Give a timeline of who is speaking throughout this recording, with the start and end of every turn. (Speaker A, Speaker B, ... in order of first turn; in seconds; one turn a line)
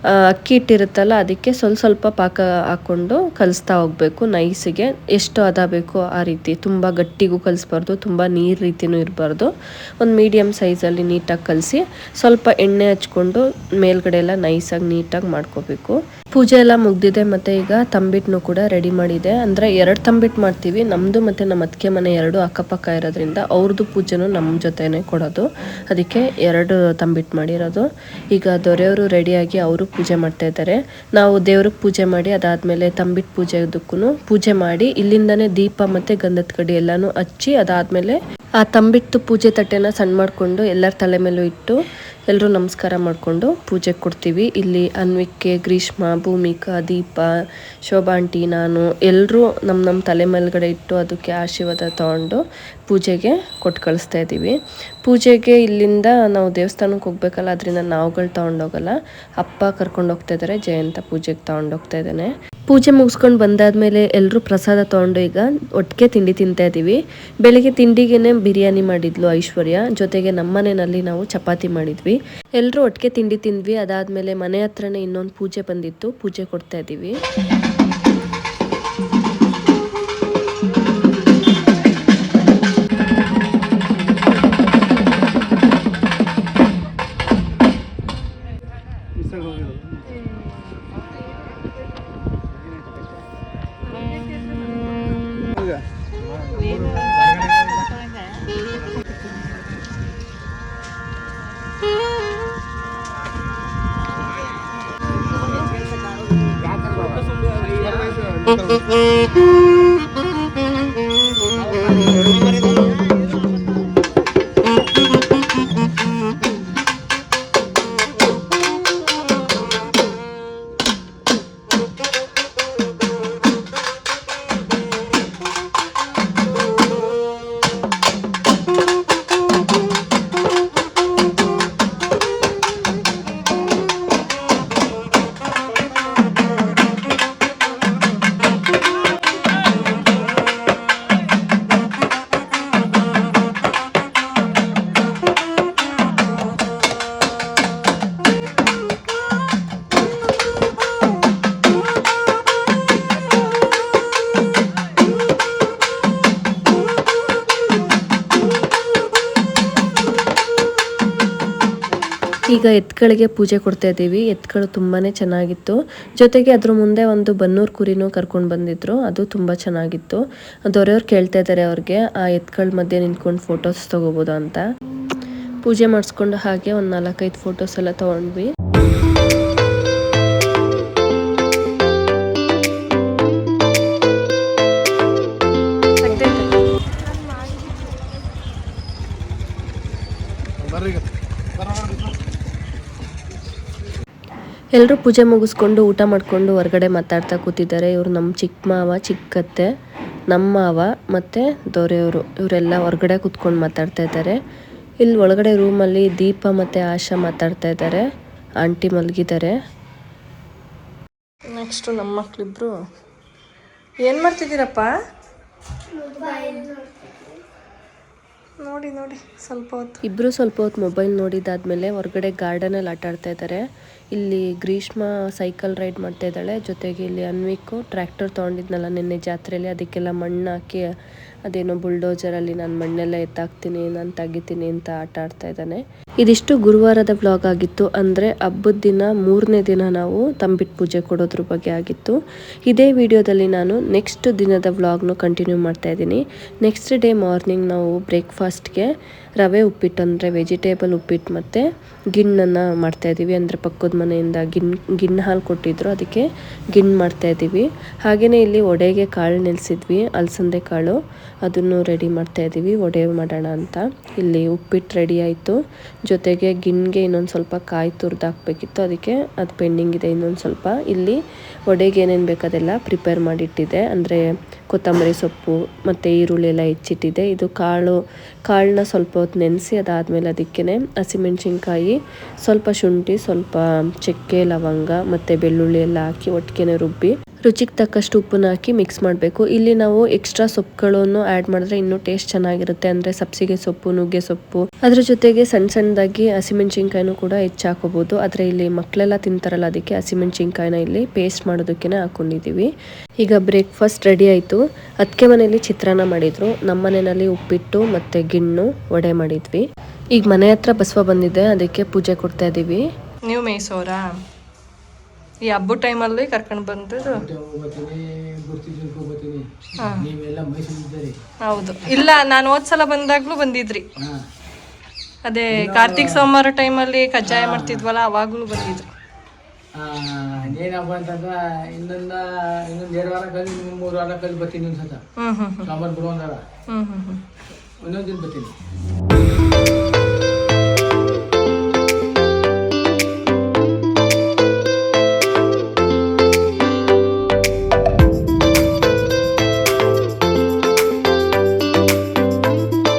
Speaker A: 0.2-41.8
Speaker A: 42.3-47.3
Speaker A: 47.9-77.1
Speaker A: 162.5-174.6
Speaker A: 175.6-178.5
Speaker B: 186.0-186.5
Speaker A: 194.7-199.7
Speaker A: 200.3-204.4
Speaker A: 205.0-208.1
Speaker A: 208.6-209.5
Speaker B: 211.5-212.7
Speaker B: 214.0-214.9
Speaker B: 216.0-217.2
Speaker B: 218.6-220.0
Speaker A: 220.0-230.8
Speaker A: 231.4-242.2
Speaker A: 242.7-302.7
Speaker A: 303.2-309.6
Speaker A: 310.1-312.8
Speaker B: 313.3-314.0
Speaker B: 315.5-317.2
Speaker C: 317.0-321.1
Speaker B: 319.8-320.1
Speaker B: 321.4-323.9
Speaker B: 325.2-328.9
Speaker C: 325.5-326.3
Speaker C: 327.2-327.9
Speaker C: 329.7-335.0
Speaker B: 335.2-335.7
Speaker C: 335.6-336.4
Speaker B: 336.7-337.2
Speaker C: 337.8-338.5